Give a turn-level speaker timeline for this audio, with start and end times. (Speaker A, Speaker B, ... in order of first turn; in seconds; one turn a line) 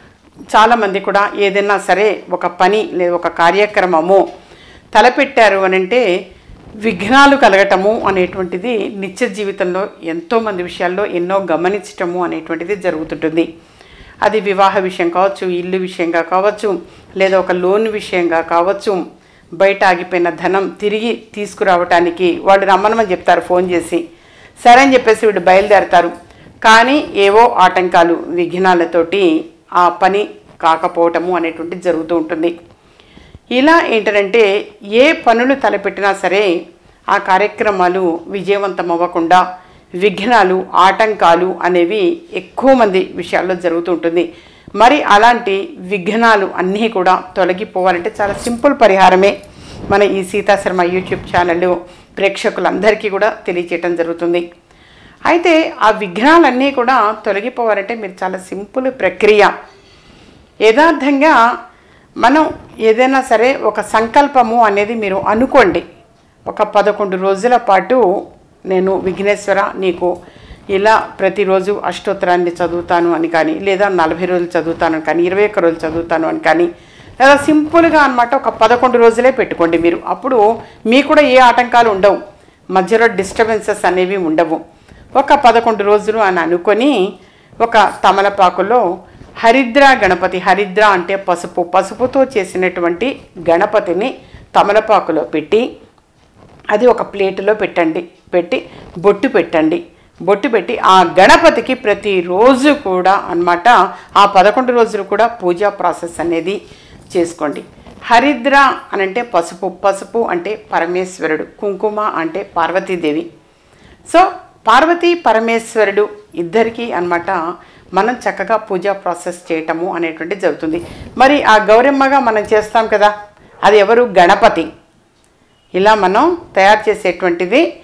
Speaker A: 0.5-4.2
Speaker A: 5.0-6.0
Speaker A: 6.8-13.5
Speaker A: 14.2-19.0
Speaker A: 19.6-24.0
Speaker A: 24.6-26.1
Speaker A: 26.6-29.3
Speaker A: 29.8-32.5
Speaker A: 33.5-36.5
Speaker A: 37.1-39.4
Speaker A: 40.0-44.3
Speaker A: 44.8-49.3
Speaker A: 49.9-54.4
Speaker A: 55.3-59.5
Speaker A: 60.7-61.4
Speaker A: 62.2-65.8
Speaker A: 66.5-68.0
Speaker A: 68.7-70.1
Speaker A: 70.8-76.7
Speaker A: 77.2-82.2
Speaker A: 82.8-84.6
Speaker A: 85.2-86.9
Speaker A: 87.6-88.8
Speaker A: 89.4-95.6
Speaker A: 96.8-106.6
Speaker A: 107.1-113.3
Speaker A: 114.1-117.4
Speaker A: 118.0-123.1
Speaker A: 123.7-124.7
Speaker A: 125.8-127.6